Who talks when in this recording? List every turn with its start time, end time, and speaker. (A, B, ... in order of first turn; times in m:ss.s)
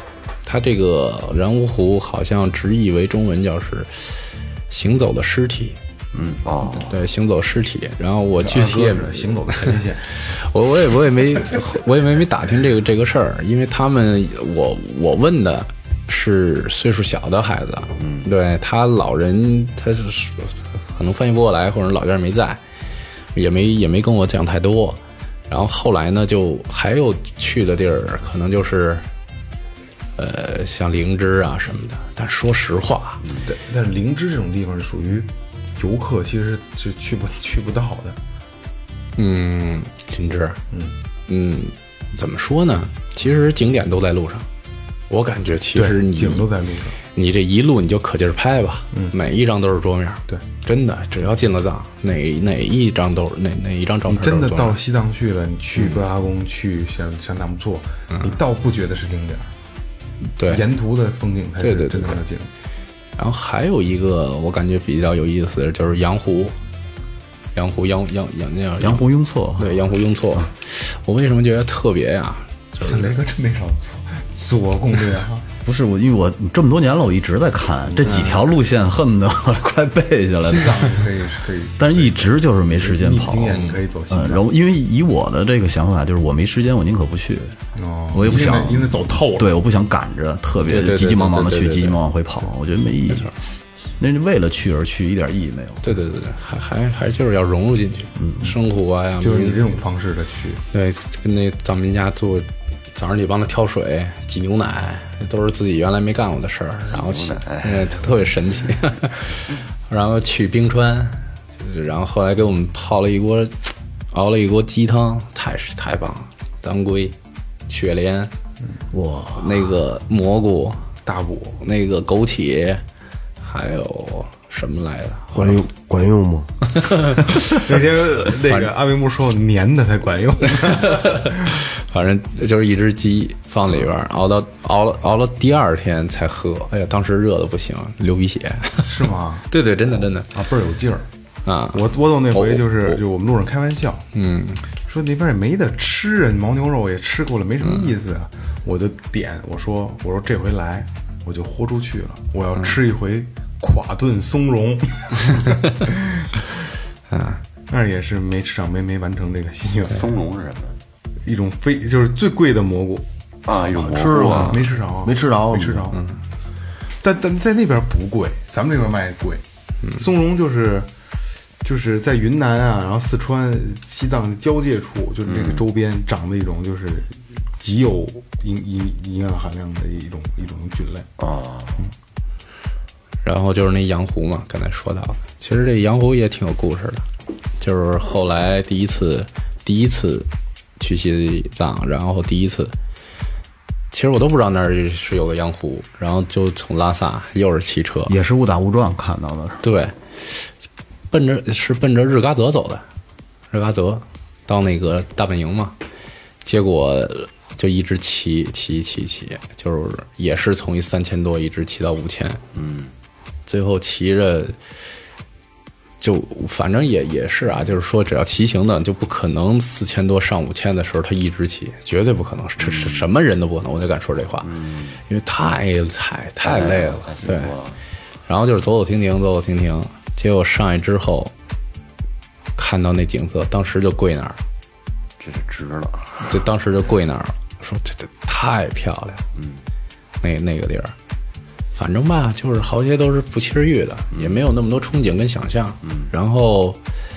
0:00.4-0:05.8 A
0:06.1-0:07.0 B
0:06.7-0:22.6 A
0:08.4-0:10.1 C
0:18.0-0:18.3 B
0:23.4-0:29.1 A
0:30.2-0:33.2 A
0:33.5-0:38.2 C
0:39.2-0:40.6 A
0:41.3-0:44.5 A
0:45.1-0:46.5 A
0:45.7-0:47.0 C
0:47.1-0:54.8 A
0:54.1-0:59.5 C
0:55.8-0:56.0 A
0:58.1-0:58.4 A
1:00.4-1:00.6 A
1:00.5-1:02.5 C
1:01.6-1:02.2 A
1:03.2-1:06.6 A
1:07.6-1:13.2 A
1:08.8-1:09.8 D
1:12.8-1:15.5 C
1:15.6-1:21.0 D
1:18.0-1:18.4 C
1:18.1-1:18.4 A
1:20.4-1:24.4 C
1:21.8-1:27.6 D
1:23.5-1:23.8 A
1:27.8-1:29.5 C
1:28.1-1:33.4 D
1:30.6-1:32.0 A
1:34.0-1:35.9 D
1:35.8-1:39.6 A
1:39.2-1:40.6 C
1:40.7-1:57.2 A
1:46.9-1:48.0 B
1:57.7-1:58.3 A
1:58.9-1:59.7 D
1:59.4-2:00.8 A
2:01.0-2:01.6 C
2:01.6-2:02.8 A
2:03.4-2:05.6 A
2:05.3-2:06.5 E
2:06.7-2:07.6 A
2:07.5-2:11.5 C
2:08.4-2:08.7 A
2:10.7-2:20.3 A
2:18.8-2:19.5 C
2:20.3-2:21.1 C
2:21.4-2:23.0 A
2:21.7-2:24.1 C
2:24.1-2:24.6 A
2:24.8-2:36.3 C
2:27.6-2:27.9 A
2:37.1-2:37.4 A
2:37.7-2:40.1 C
2:39.9-2:40.8 B
2:41.2-2:43.1 C
2:43.5-2:44.6 B
2:43.8-2:45.9 E
2:44.4-2:46.0 C
2:45.9-2:46.2 A
2:47.0-2:49.4 C
2:50.0-2:50.9 C
2:51.6-3:01.1 C
2:55.3-2:55.6 B
3:01.2-3:01.8 B
3:03.2-3:07.1 A
3:07.6-3:12.7 A
3:13.9-3:18.2 A
3:18.1-3:19.6 D
3:19.6-3:20.5 A
3:21.1-3:22.8 A
3:23.5-3:25.8 A
3:26.4-3:32.4 A
3:32.5-3:32.9 B
3:33.5-3:34.6 A
3:36.0-3:44.5 A
3:42.6-3:43.1 B
3:44.4-3:45.0 B
3:45.1-3:47.5 A
3:46.4-3:47.8 B
3:48.3-3:51.3 A
3:52.6-3:54.4 A
3:55.2-3:56.4 B
3:56.2-3:59.2 A
3:59.4-3:59.6 B
4:00.2-4:01.0 A
4:01.7-4:06.8 A
4:05.8-4:06.1 B